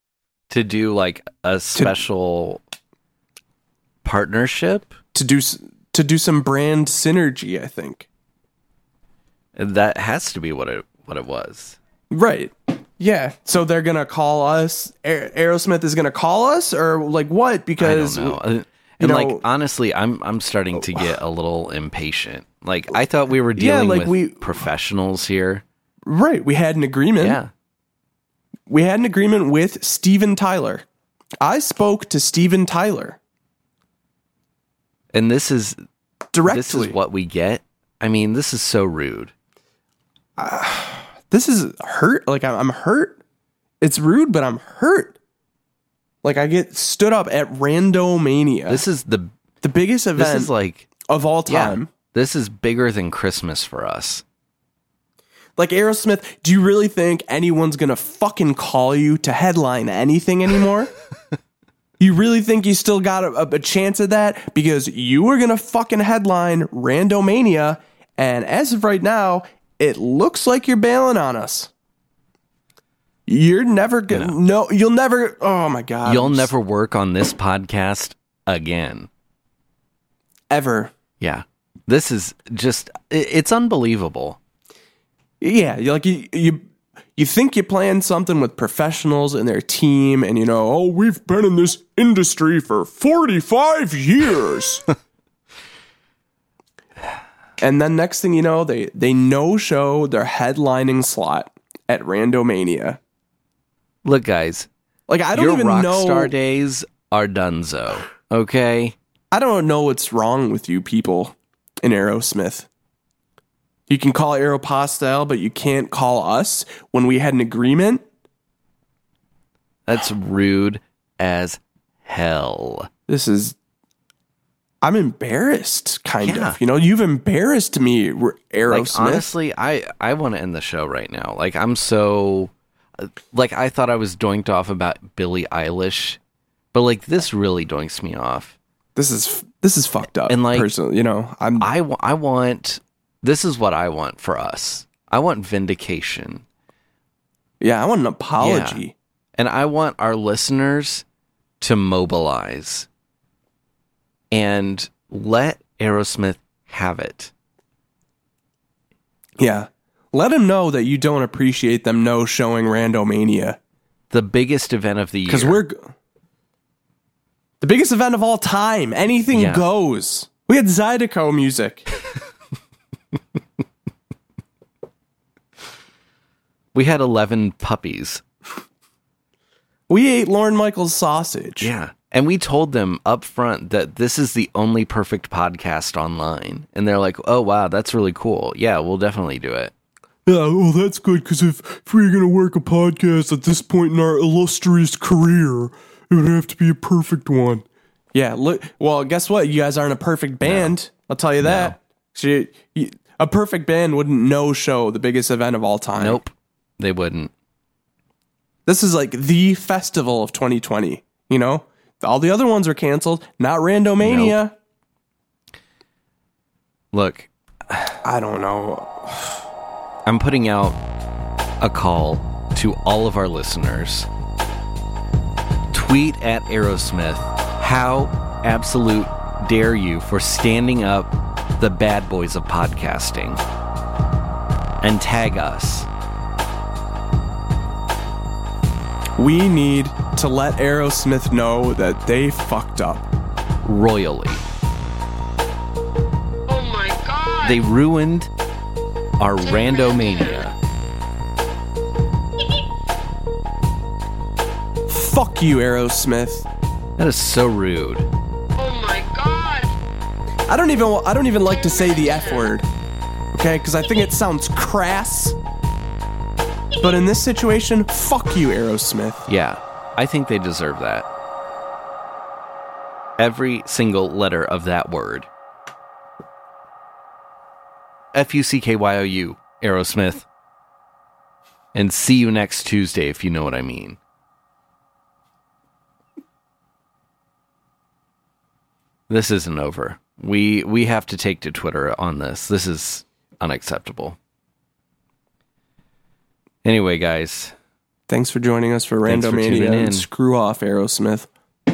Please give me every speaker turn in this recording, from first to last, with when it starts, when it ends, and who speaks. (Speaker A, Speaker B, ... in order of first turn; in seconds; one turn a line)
Speaker A: 0.5-2.6
Speaker A: 4.0-4.9
Speaker B: 5.1-8.1
Speaker A: 9.6-11.8
Speaker B: 12.1-18.4
Speaker A: 17.8-25.6
Speaker B: 19.0-19.4
Speaker B: 23.6-24.6
Speaker B: 26.1-27.4
Speaker A: 27.2-27.5
Speaker B: 28.7-30.8
Speaker B: 31.4-33.2
Speaker A: 35.1-35.8
Speaker B: 36.3-37.0
Speaker A: 36.4-39.3
Speaker B: 40.4-43.2
Speaker B: 43.8-45.2
Speaker B: 46.2-48.8
Speaker A: 48.7-49.3
Speaker B: 49.6-51.9
Speaker A: 50.1-50.9
Speaker A: 51.5-54.2
Speaker B: 55.6-60.9
Speaker B: 62.0-71.7
Speaker B: 73.3-76.5
Speaker A: 74.1-74.4
Speaker A: 76.0-79.1
Speaker B: 80.5-80.9
Speaker A: 81.2-84.4
Speaker B: 85.4-86.6
Speaker B: 87.2-94.9
Speaker B: 97.6-103.0
Speaker A: 104.0-104.7
Speaker B: 105.1-106.3
Speaker A: 105.3-108.9
Speaker B: 109.3-112.7
Speaker B: 113.9-118.0
Speaker A: 119.9-122.9
Speaker B: 123.1-123.5
Speaker B: 124.8-129.3
Speaker A: 126.2-126.6
Speaker A: 128.7-136.2
Speaker A: 136.7-138.6
Speaker B: 138.9-141.7
Speaker A: 140.3-140.7
Speaker A: 141.6-146.4
Speaker B: 147.6-148.9
Speaker A: 148.4-148.8
Speaker A: 149.4-151.0
Speaker A: 151.6-152.9
Speaker A: 154.3-157.3
Speaker B: 159.4-163.6
Speaker A: 164.1-165.6
Speaker B: 165.3-165.9
Speaker B: 167.6-171.9
Speaker A: 169.3-169.6
Speaker A: 176.7-178.2
Speaker B: 179.9-181.7
Speaker A: 181.6-189.7
Speaker B: 190.2-206.2
Speaker A: 200.4-200.8
Speaker A: 201.4-201.8
Speaker A: 206.0-207.3
Speaker B: 208.7-214.5
Speaker A: 214.0-214.4
Speaker A: 216.9-218.0
Speaker B: 218.0-219.4
Speaker A: 220.1-220.8
Speaker A: 221.6-224.1
Speaker A: 225.7-233.4
Speaker A: 234.8-235.9
Speaker B: 239.2-243.1
Speaker A: 243.6-244.4
Speaker C: 246.5-247.6
Speaker A: 247.4-248.3
Speaker A: 249.2-250.6
Speaker C: 249.4-250.4
Speaker B: 254.9-256.5
Speaker A: 257.0-258.1
Speaker C: 258.6-259.7
Speaker B: 260.5-262.7
Speaker C: 261.5-262.5
Speaker B: 263.3-265.4
Speaker B: 266.8-269.2
Speaker A: 269.3-271.1
Speaker A: 273.2-275.3
Speaker A: 278.1-280.2
Speaker A: 281.7-284.0
Speaker A: 289.1-294.2
Speaker A: 296.6-297.5
Speaker B: 298.1-301.3
Speaker A: 299.1-300.1